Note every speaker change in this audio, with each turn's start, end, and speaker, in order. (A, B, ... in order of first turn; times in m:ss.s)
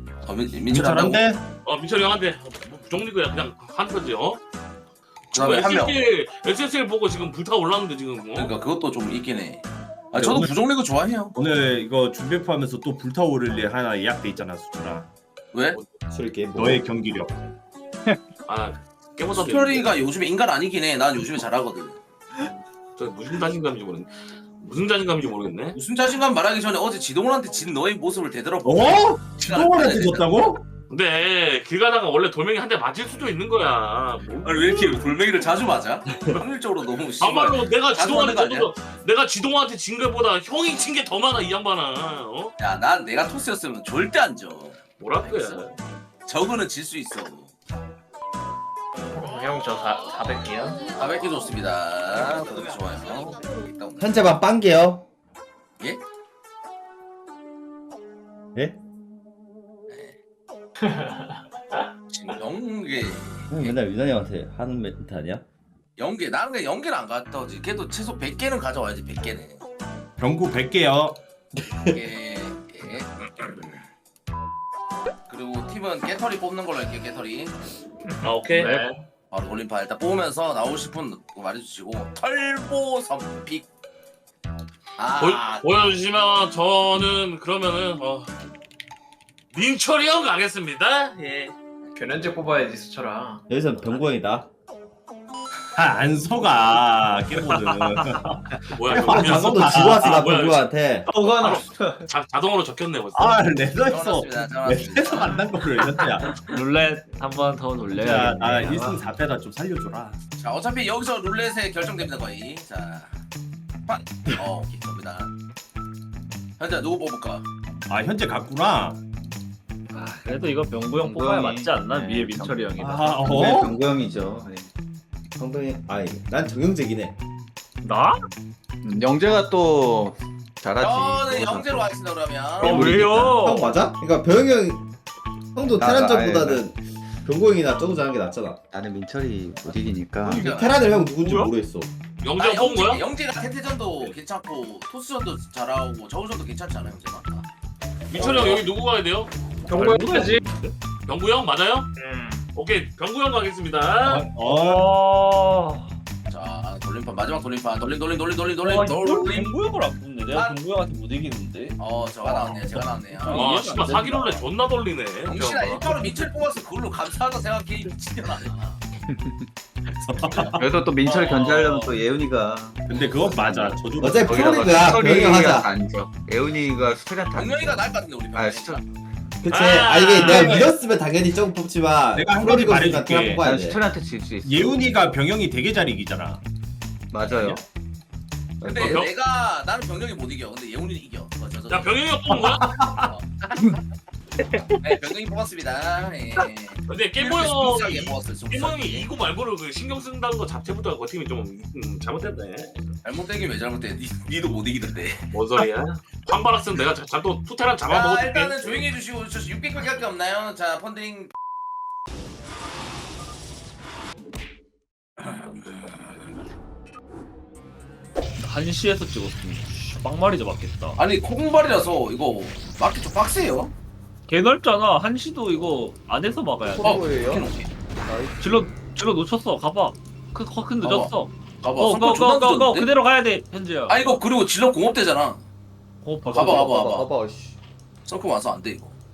0:00.2-0:01.2 A
0:00.7-0:01.4 B
0:01.6-0:04.4 C
0:05.3-0:08.5 C
0:05.3-0:06.0 A
0:08.4-0:11.4 A
0:10.1-0:10.6 B
0:11.4-0:15.1 B
0:15.5-0:15.8 A
0:16.1-0:16.9 D
0:16.6-0:17.4 B
0:18.5-0:20.0 C
0:19.3-0:22.0 A
0:23.0-0:25.8 C
0:25.8-0:30.3 A
0:28.6-0:30.6 B
0:30.9-0:35.2 C
0:34.4-0:38.7 A
0:37.2-0:42.5 C
0:42.6-0:45.6 A
0:45.0-0:45.8 C
0:46.3-0:47.5 A
0:49.1-0:50.9 E
0:51.0-0:54.1 A
0:54.0-0:55.1 D
0:58.5-0:58.8 D
0:59.9-1:00.2 A
1:00.8-1:01.4 E
1:02.1-1:03.8 A
1:03.5-1:05.4 D
1:06.0-1:09.6 A
1:10.2-1:11.2 B
1:11.6-1:12.0 D
1:11.9-1:13.8 A
1:15.3-1:17.6 A
1:18.2-1:18.7 E
1:18.2-1:19.0 C
1:18.5-1:18.9 F
1:19.3-1:23.7 A
1:25.0-1:25.6 A
1:25.2-1:28.3 C
1:29.5-1:31.5 C
1:32.0-1:33.5 E
1:33.5-1:34.5 D
1:35.8-1:40.2 B
1:37.4-1:38.6 F
1:38.7-1:40.7 C
1:38.9-1:41.1 D
1:41.1-1:42.1 G
1:41.2-1:43.4 C
1:43.1-1:46.4 B
1:43.9-1:45.4 A
1:46.4-1:49.0 F
1:47.9-1:50.2 B
1:50.4-1:53.2 A
1:53.9-1:55.3 A
1:56.6-1:57.4 A
1:57.9-1:59.0 B
1:59.9-2:03.6 F
2:01.0-2:02.6 G
2:02.8-2:03.8 B
2:03.2-2:04.7 G
2:05.4-2:07.2 D
2:07.8-2:08.2 F
2:08.8-2:11.9 G
2:10.8-2:12.9 A
2:12.6-2:13.7 F
2:12.6-2:14.9 D
2:12.6-2:13.4 G
2:15.6-2:18.6 D
2:15.8-2:16.7 G
2:18.7-2:20.4 G
2:20.2-2:21.5 F
2:20.3-2:20.7 A
2:20.4-2:21.9 D
2:22.2-2:23.0 C
2:22.4-2:27.5 A
2:28.1-2:29.3 C
2:28.2-2:28.6 D
2:29.7-2:30.4 E
2:29.7-2:30.8 F
2:31.1-2:31.9 C
2:32.0-2:32.4 E
2:32.5-2:34.3 C
2:34.0-2:34.9 B
2:34.4-2:36.0 F
2:36.3-2:39.5 A
2:38.6-2:44.3 F
2:40.3-2:40.6 A
2:41.8-2:44.4 A
2:43.3-2:45.9 C
2:45.3-2:48.8 A
2:49.1-2:49.5 G
2:50.0-2:50.6 B
2:50.3-2:51.9 A
2:50.6-2:58.8 G
2:52.8-2:54.9 B
2:54.0-2:55.7 D
2:57.3-2:58.8 A
2:59.4-3:03.8 D
2:59.5-3:00.7 C
3:00.2-3:00.6 B
3:02.1-3:03.5 B
3:03.4-3:04.8 G
3:04.4-3:06.4 B
3:07.1-3:07.6 G
3:07.2-3:07.6 B
3:08.6-3:09.0 G
3:08.6-3:12.0 A
3:08.7-3:09.1 C
3:11.7-3:12.8 C
3:13.0-3:13.8 A
3:14.8-3:19.1 A
3:16.9-3:22.7 C
3:23.0-3:25.3 A
3:25.3-3:28.9 C
3:27.9-3:31.3 A
3:35.2-3:35.7 A
3:38.4-3:41.0 F
3:41.0-3:43.7 A
3:44.3-3:47.0 F
3:46.6-3:47.5 G
3:46.8-3:47.7 A
3:48.0-3:48.7 G
3:48.4-3:54.2 F
3:50.8-3:52.9 A
3:53.9-3:55.4 A
3:56.0-3:56.8 F
3:56.2-3:57.6 G
3:56.3-3:57.1 A
3:58.1-3:58.9 A